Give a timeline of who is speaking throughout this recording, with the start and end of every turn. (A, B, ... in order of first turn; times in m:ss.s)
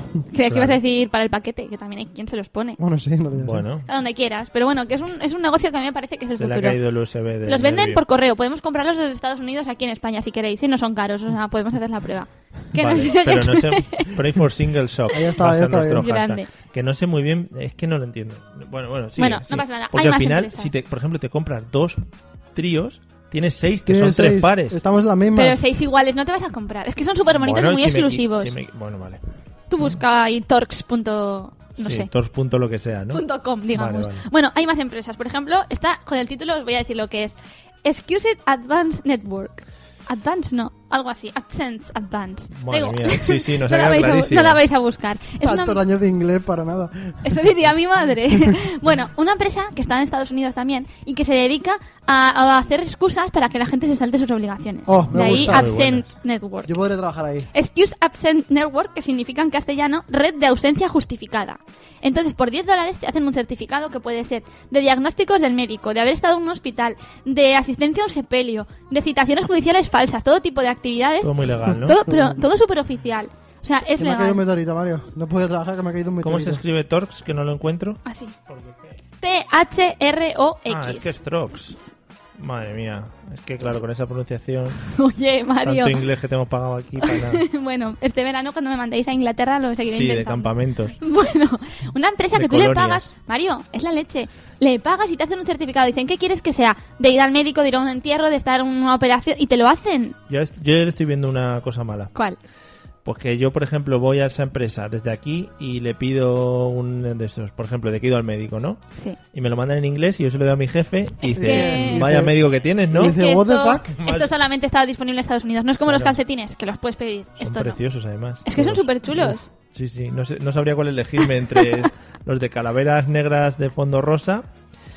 0:00.3-0:02.8 A
0:00.5-0:00.8 B
0:02.8-0:03.6 C
0:03.4-0:03.9 B
0:03.9-0:06.8 A
0:06.4-0:08.0 B
0:07.5-0:14.1 A
0:12.8-0:22.0 B
0:15.1-0:16.1 C
0:16.0-0:16.5 A
0:19.2-0:20.7 A
0:22.6-0:24.8 B
0:23.9-0:25.6 C
0:25.4-0:28.5 A
0:27.3-0:29.2 B
0:29.7-0:32.1 A
0:31.8-0:34.3 B
0:33.1-0:45.8 A
0:42.5-0:44.6 B
0:45.4-0:47.4 C
0:47.2-0:56.8 A
0:54.9-0:55.8 C
0:54.9-0:56.1 B
0:56.6-0:57.5 C
0:57.5-1:14.4 A
1:11.2-1:12.0 B
1:12.1-1:12.4 C
1:14.0-1:16.6 C
1:16.2-1:19.0 B
1:18.1-1:18.3 A
1:19.2-1:21.1 A
1:20.7-1:21.8 B
1:22.4-1:24.8 B
1:24.8-1:26.0 A
1:25.6-1:27.4 B
1:27.0-1:30.5 A
1:29.9-1:31.0 B
1:31.0-1:40.2 A
1:32.3-1:33.1 B
1:40.3-1:42.1 B
1:43.0-1:48.8 B
1:49.3-1:53.2 B
1:51.2-1:52.0 A
1:51.4-1:52.4 C
1:52.9-1:54.0 C
1:53.0-1:57.8 A
1:54.0-1:54.3 B
1:55.9-1:56.2 B
1:57.4-2:04.5 B
1:58.4-1:59.5 A